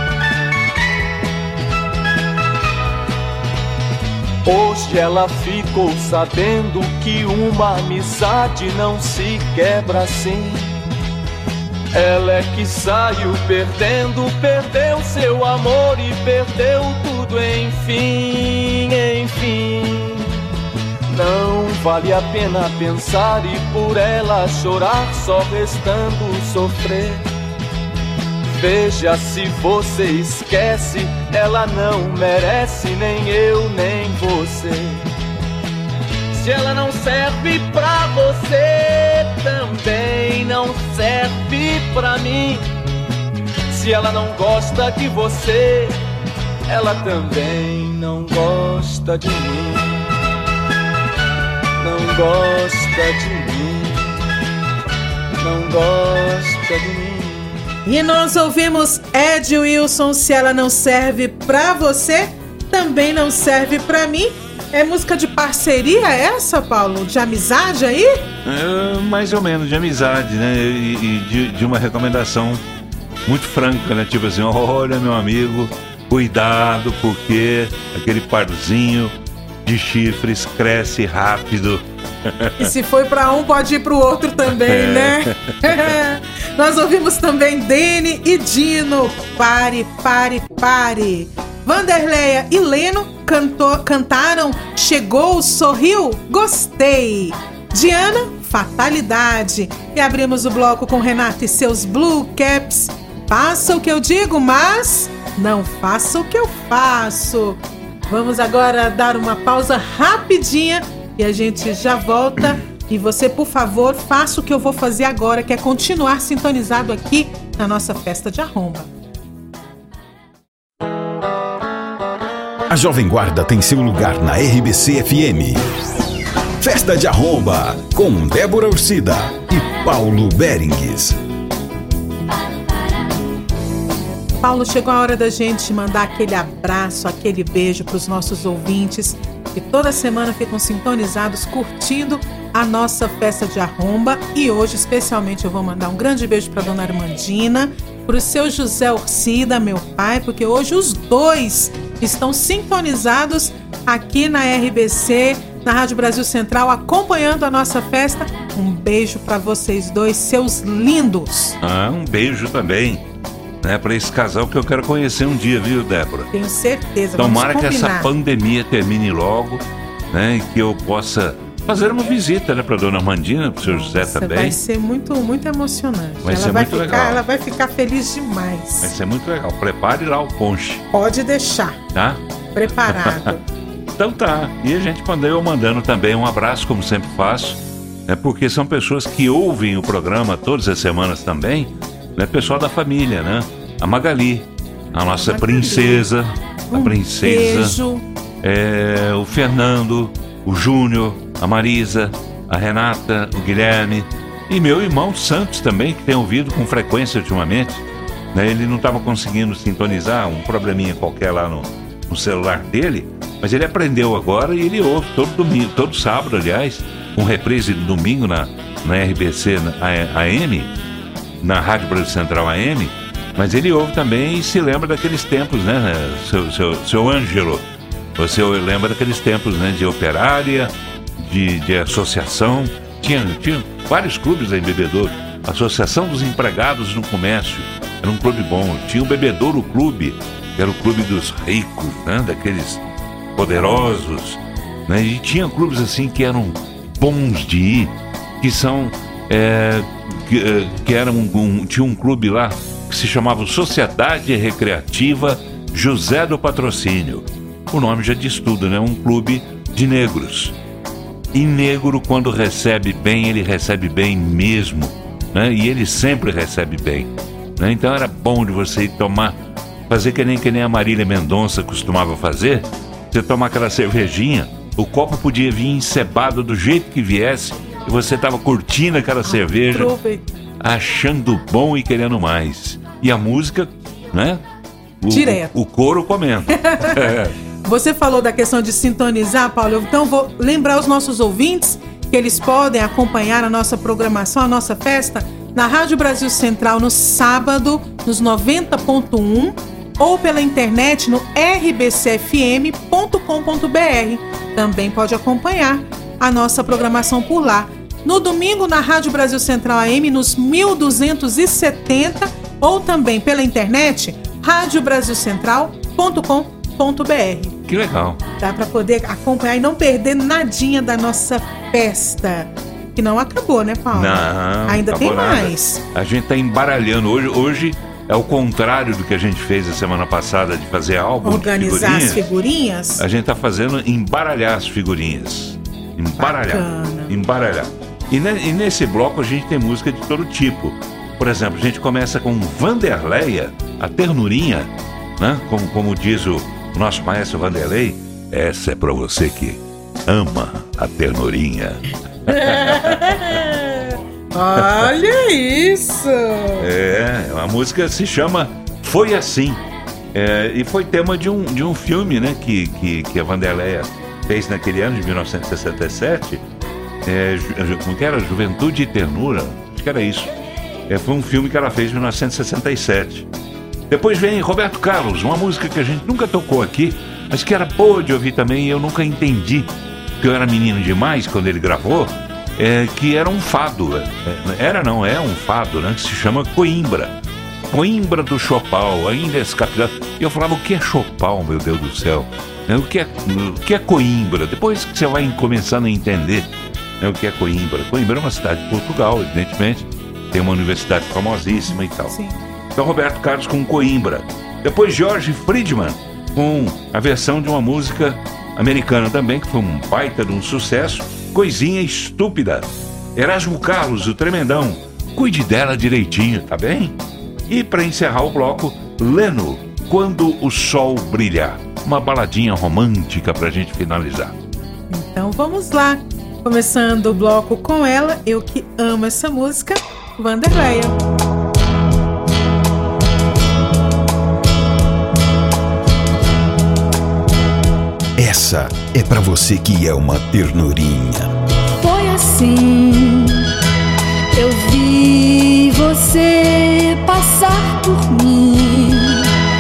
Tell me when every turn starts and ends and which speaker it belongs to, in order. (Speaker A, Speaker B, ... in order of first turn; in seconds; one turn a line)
Speaker A: 4.5-10.8
Speaker A: 11.9-20.4
Speaker A: 21.1-27.3
Speaker A: 28.4-35.1
Speaker A: 36.3-42.7
Speaker A: 43.7-46.0
Speaker A: 46.7-50.1
Speaker A: 51.8-54.2
Speaker A: 55.4-57.7
Speaker B: 57.9-68.3
Speaker C: 68.5-72.6
Speaker C: 73.3-79.1
Speaker C: 79.7-82.7
Speaker B: 82.6-118.9
Speaker C: 84.7-85.3
Speaker D: 122.7-125.7
Speaker D: 126.6-131.2
Speaker B: 134.4-161.6
Speaker C: 161.6-163.0
Speaker C: 163.6-166.3
Speaker B: 166.3-168.1
Speaker C: 167.2-174.6
Speaker B: 173.6-178.9
Speaker C: 176.2-177.2
Speaker C: 178.8-180.8
Speaker B: 180.9-181.8
Speaker C: 181.9-182.2
Speaker B: 182.6-183.4
Speaker C: 182.9-183.3
Speaker C: 183.9-197.8
Speaker B: 195.2-196.1
Speaker B: 196.7-198.0
Speaker C: 198.4-220.7
Speaker C: 221.4-227.6
Speaker C: 228.2-242.8
Speaker C: 243.4-260.5
Speaker C: 261.3-269.4
Speaker C: 269.9-279.9
Speaker B: 279.3-280.3
Speaker C: 280.6-284.4
Speaker C: 285.0-287.3
Speaker B: 285.1-285.5
Speaker B: 286.6-287.1
Speaker B: 287.6-317.6
Speaker C: 317.7-318.2
Speaker B: 318.4-325.8
Speaker C: 323.9-332.2
Speaker B: 331.2-333.0
Speaker C: 333.0-353.4
Speaker B: 336.2-337.2
Speaker B: 352.3-353.8
Speaker B: 354.3-356.7
Speaker C: 356.6-359.6
Speaker C: 360.1-366.4
Speaker C: 367.1-370.3
Speaker C: 370.9-373.3
Speaker C: 373.9-379.7
Speaker C: 380.2-387.1
Speaker C: 387.7-402.1
Speaker B: 401.5-402.4
Speaker C: 402.8-417.0
Speaker C: 417.5-424.4
Speaker B: 424.9-431.0
Speaker D: 438.2-441.3
Speaker E: 441.8-443.5
Speaker E: 444.3-449.3